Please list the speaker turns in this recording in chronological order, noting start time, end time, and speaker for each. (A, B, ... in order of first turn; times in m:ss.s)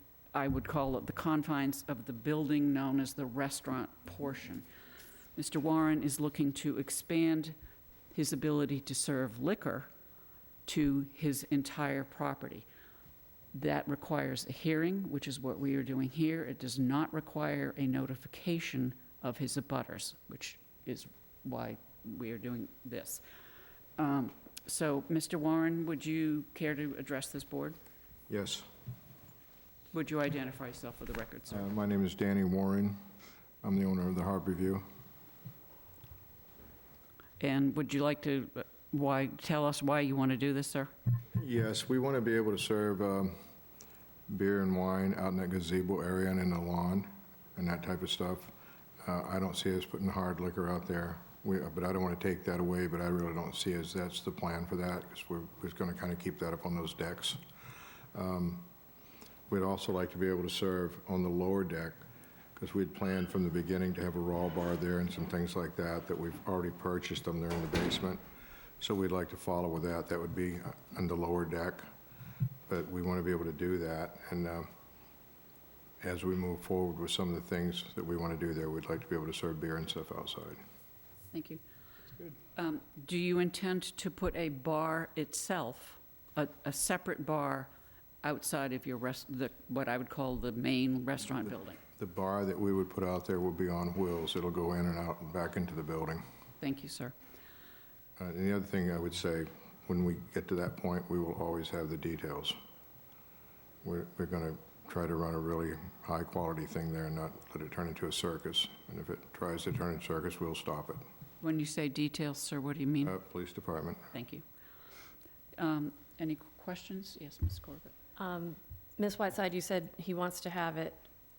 0:00.3-0:04.6 A
0:05.4-0:07.6 A
0:08.1-0:09.9 A
0:10.6-0:12.6 A
0:13.5-0:23.2 A
0:24.0-0:27.8 A
0:28.3-0:28.7 B
0:29.9-0:31.7 A
0:31.5-0:33.0 B
0:33.6-0:34.8 B
0:37.4-0:40.9 A
0:41.3-0:43.3 B
0:44.3-0:57.4 B
0:58.1-0:58.7 B
0:59.5-1:02.0 B
1:02.6-1:08.2 B
1:08.8-1:11.9 B
1:12.7-1:14.7 B
1:16.0-1:20.6 B
1:21.3-1:21.6 A
1:22.6-1:27.7 A
1:28.2-1:31.8 A
1:32.0-1:36.2 B
1:36.6-1:37.1 A
1:38.2-1:42.6 B
1:43.8-1:51.0 B
1:51.4-1:53.2 A
1:53.0-1:54.1 B
1:54.1-1:54.4 A
1:55.6-1:57.9 A
1:58.2-2:01.0 C